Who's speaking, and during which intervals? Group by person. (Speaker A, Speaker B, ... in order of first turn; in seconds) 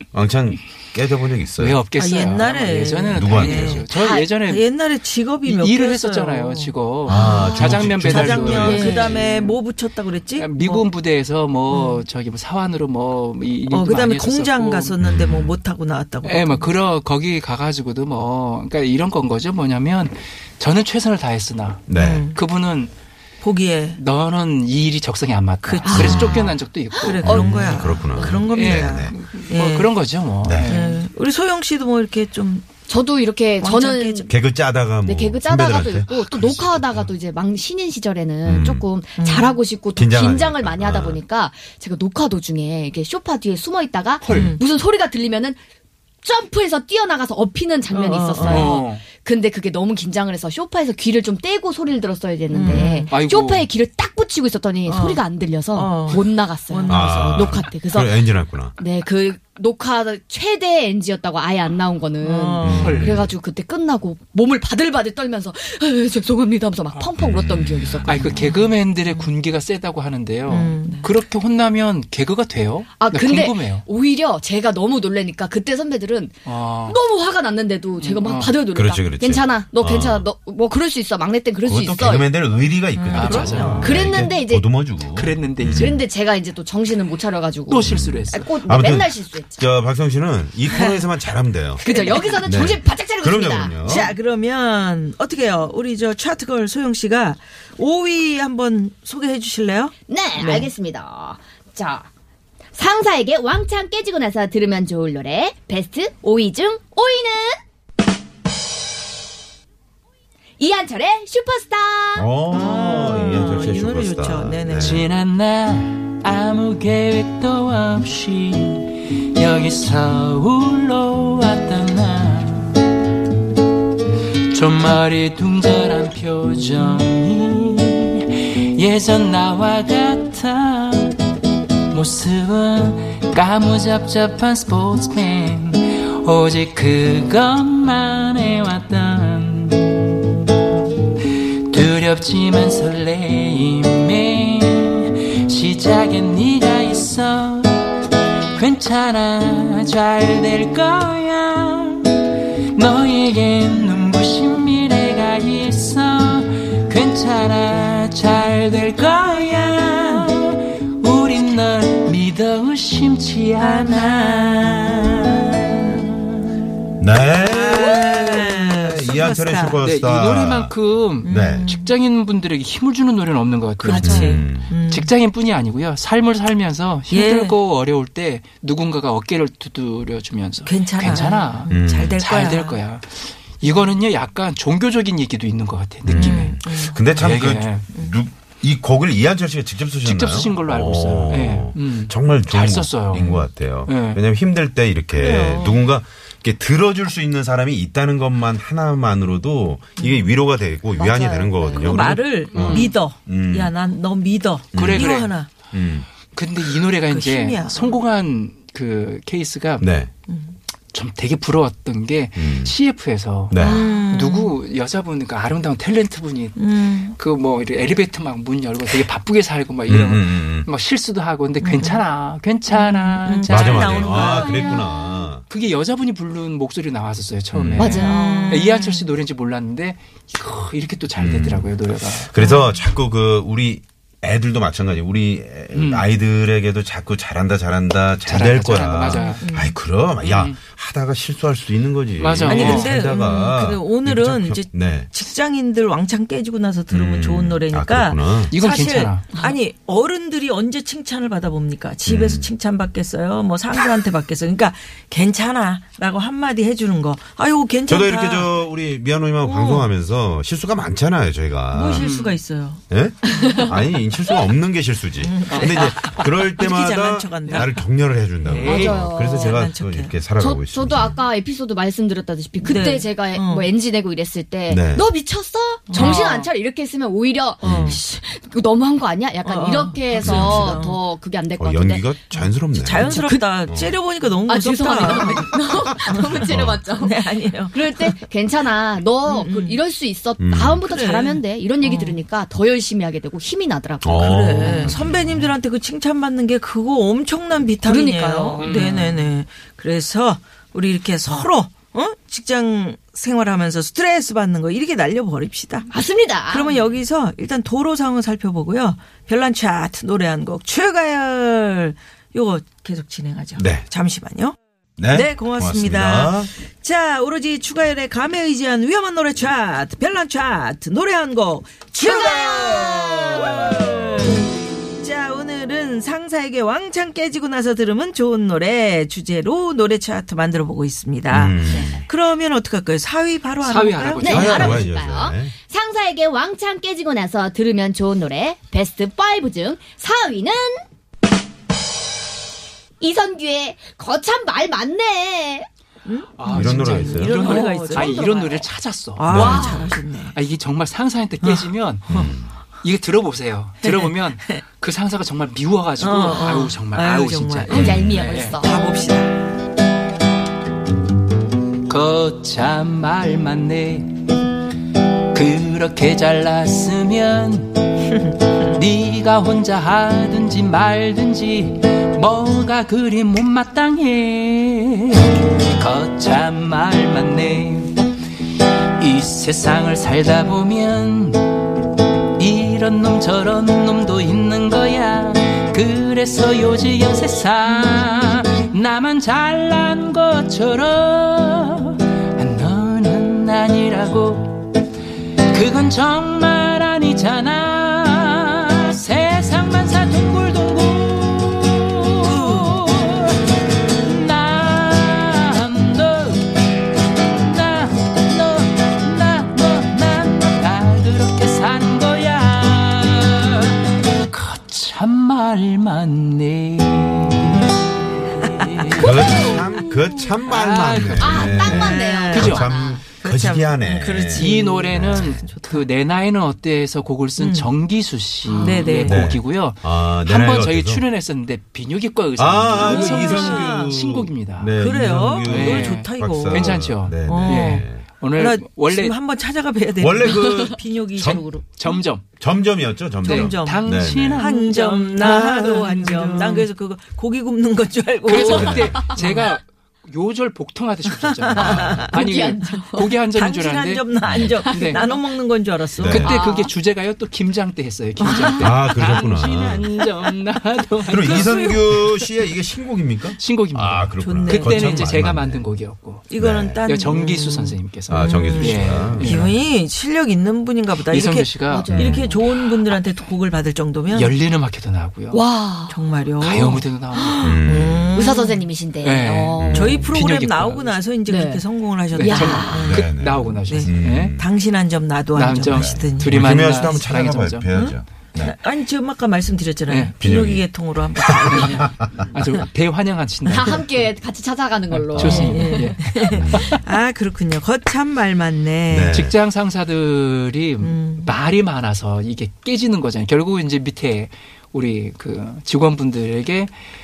Speaker A: 0.1-1.8, 3.1-4.0, 7.0-9.2, 15.0-15.6, 21.9-22.3, 25.9-26.3, 27.2-29.1, 30.4-30.9, 34.3-37.1, 38.4-38.9, 40.0-41.2, 48.4-48.7, 52.6-52.9, 56.9-58.8, 62.6-63.3, 67.2-68.3, 78.7-80.3, 81.6-86.0, 87.8-94.1, 112.1-115.1, 167.0-170.7, 171.2-171.7, 174.0-174.7, 181.7-182.2, 186.0-203.7, 204.7-206.1, 209.8-210.1, 212.3-212.7, 213.5-213.8, 219.9-220.7, 223.4-225.4, 227.5-228.0, 231.2-245.1, 246.9-248.5, 252.0-252.5, 257.9-262.1, 262.9-271.1, 274.7-275.1, 277.6-278.0, 280.2-280.8, 281.6-284.0, 286.4-286.8, 290.4-290.8, 294.0-295.4, 313.6-313.8, 315.0-316.5, 322.1-323.9, 331.3-332.0, 334.2-335.5, 346.5-347.7, 349.3-350.0, 352.1-352.5, 357.7-358.1, 419.0-425.5, 428.9-431.0, 432.4-438.0, 440.0-441.4, 442.4-444.4, 448.4-449.0, 451.5-452.1, 454.2-454.5, 455.9-456.3, 458.5-459.9, 461.1-465.7, 466.3-466.8, 468.1-469.6, 471.9-472.3, 477.4-478.2, 479.6-480.1, 482.8-484.5, 485.7-488.6, 490.2-492.3, 496.3-496.8, 498.9-499.4
Speaker B: 1.6-4.7, 5.4-9.6, 10.3-15.0, 16.2-22.9, 23.9-27.8, 28.5-31.0, 44.2-44.5, 47.9-49.0, 52.8-53.7, 62.8-63.2, 68.0-73.8, 76.4-77.0, 78.0-78.6, 83.1-83.9, 85.0-86.0, 87.7-88.5, 114.8-122.8, 124.5-131.2, 131.9-140.1, 141.7-148.0, 148.5-165.8, 169.8-186.6, 187.2-187.8, 190.0-193.3, 193.8-194.2, 202.5-202.9, 204.7-205.3, 206.3-209.9, 210.9-224.8, 225.5-232.3, 235.7-236.1, 238.2-239.4, 240.2-240.6, 242.2-242.9, 248.5-249.3, 261.9-262.4, 265.5-266.1, 267.4-267.8, 268.4-269.0, 275.9-276.5, 298.6-299.3, 333.6-334.8, 346.4-349.3, 350.3-352.1, 352.8-358.6, 361.9-364.3, 365.3-368.0, 368.6-378.1, 379.0-381.7, 382.4-394.8, 395.5-406.7, 407.3-417.7, 418.4-422.6, 424.3-434.7, 435.4-439.2, 441.6-442.2, 443.2-446.7, 448.2-455.1, 456.0-462.0, 463.4-466.3, 466.9-469.5, 471.0-472.9, 474.1-475.4, 476.4-477.6, 479.0-481.0, 482.1-484.3, 485.3-487.7, 489.9-490.1, 491.5-494.1, 494.9-496.8, 499.1-506.7
Speaker C: 2.0-10.9, 11.7-12.0, 13.7-16.7, 21.9-22.4, 23.4-24.0, 25.6-29.9, 30.6-32.7, 33.6-34.3, 39.2-39.5, 44.3-44.6, 48.0-48.7, 52.5-53.1, 54.9-57.6, 62.2-63.2, 68.3-69.3, 70.5-71.0, 82.9-84.4, 90.7-91.1, 91.8-92.4, 93.8-100.7, 112.5-115.1, 163.6-165.9, 167.4-169.8, 171.2-171.9, 173.8-175.1, 177.1-177.5, 180.7-182.8, 186.1-187.1, 193.1-193.4, 195.1-195.9, 200.0-200.3, 201.8-205.5, 207.1-208.0, 210.3-210.5, 213.6-214.6, 216.6-217.2, 221.6-222.0, 222.7-225.3, 227.9-229.1, 232.4-232.8, 239.1-239.8, 242.4-258.6, 259.4-259.9, 261.7-263.7, 265.2-267.7, 269.1-270.1, 272.6-273.7, 275.9-276.5, 277.6-278.0, 279.4-281.0, 282.3-288.2, 289.2-289.8, 290.9-292.2, 294.3-305.9, 306.5-314.6, 315.1-334.7, 346.0-350.4, 351.4-352.3, 353.8-354.6, 356.0-359.3, 402.2-402.8, 418.6-418.9, 421.7-425.8, 427.4-427.7, 428.5-429.3, 432.7-433.9, 434.8-441.6, 443.2-443.8, 444.3-449.4, 451.5-452.1, 453.3-456.4, 461.1-462.1, 464.2-465.1, 466.3-474.3, 475.9-478.6, 479.7-483.1, 483.6-487.1, 487.7-491.9, 495.2-499.2, 500.8-501.3
Speaker D: 3.9-4.3, 7.2-7.8, 8.6-9.1, 25.8-28.4, 32.9-34.3, 35.0-45.6, 46.2-58.2, 58.8-68.5, 73.0-82.3, 83.8-84.7, 85.7-89.6, 91.8-93.7, 100.1-102.1, 102.7-107.6, 110.6-112.3, 200.9-202.1, 227.8-228.5, 268.6-269.6, 270.4-282.1, 283.0-283.5, 284.5-294.9, 297.8-298.8, 305.9-306.8, 334.2-340.8, 343.0-345.7, 349.3-349.9, 357.7-358.8, 418.9-419.6, 421.2-423.0, 428.5-428.9, 448.4-449.3, 452.1-453.1, 454.4-455.1, 456.3-456.7, 458.2-458.7, 471.7-472.3, 475.3-476.0, 478.1-480.0, 481.3-481.6, 482.2-482.9, 493.4-496.0